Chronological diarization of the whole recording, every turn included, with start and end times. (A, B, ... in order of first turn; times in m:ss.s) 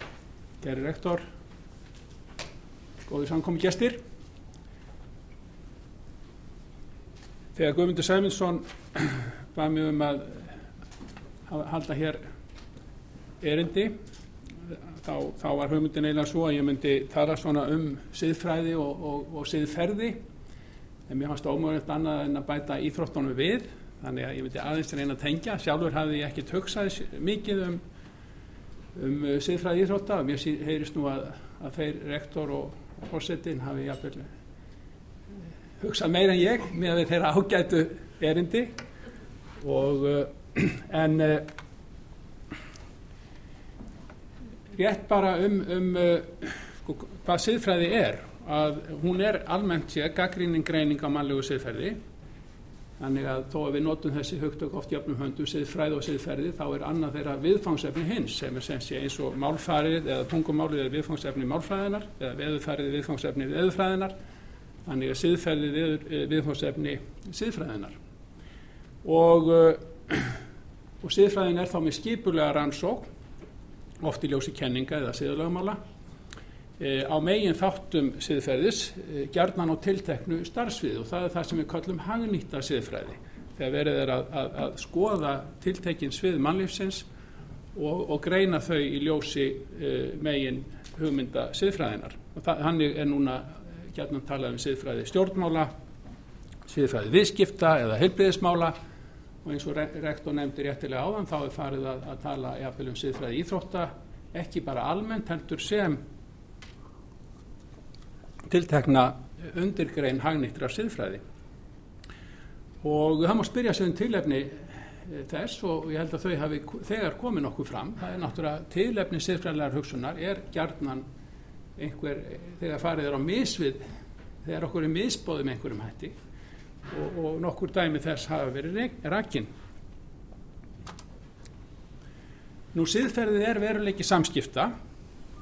0:00.6-0:01.2 A
0:03.1-0:04.0 A
0:07.6-0:10.6 A
0:11.5-0:12.2 A
0:13.4-0:14.0 A
0:14.7-0:20.2 A
0:21.1-0:27.8 A
0:29.0-0:34.3 A
0:35.8-0:38.7 A
0:39.6-0:41.5 A
0:44.7-0:52.0 A
0:53.0-1:04.1 A
1:04.9-1:08.0 A
1:09.0-1:10.4 A
1:11.0-1:13.0 A
1:14.0-1:15.8 A
1:16.8-1:27.0 A
1:27.8-1:35.7 A
1:36.7-1:38.7 A
1:39.4-1:46.0 A
1:48.5-1:51.2 A
1:52.8-2:01.0 A
2:01.8-2:03.8 A
2:04.4-2:06.1 A
2:06.9-2:09.5 A
2:12.7-2:14.7 A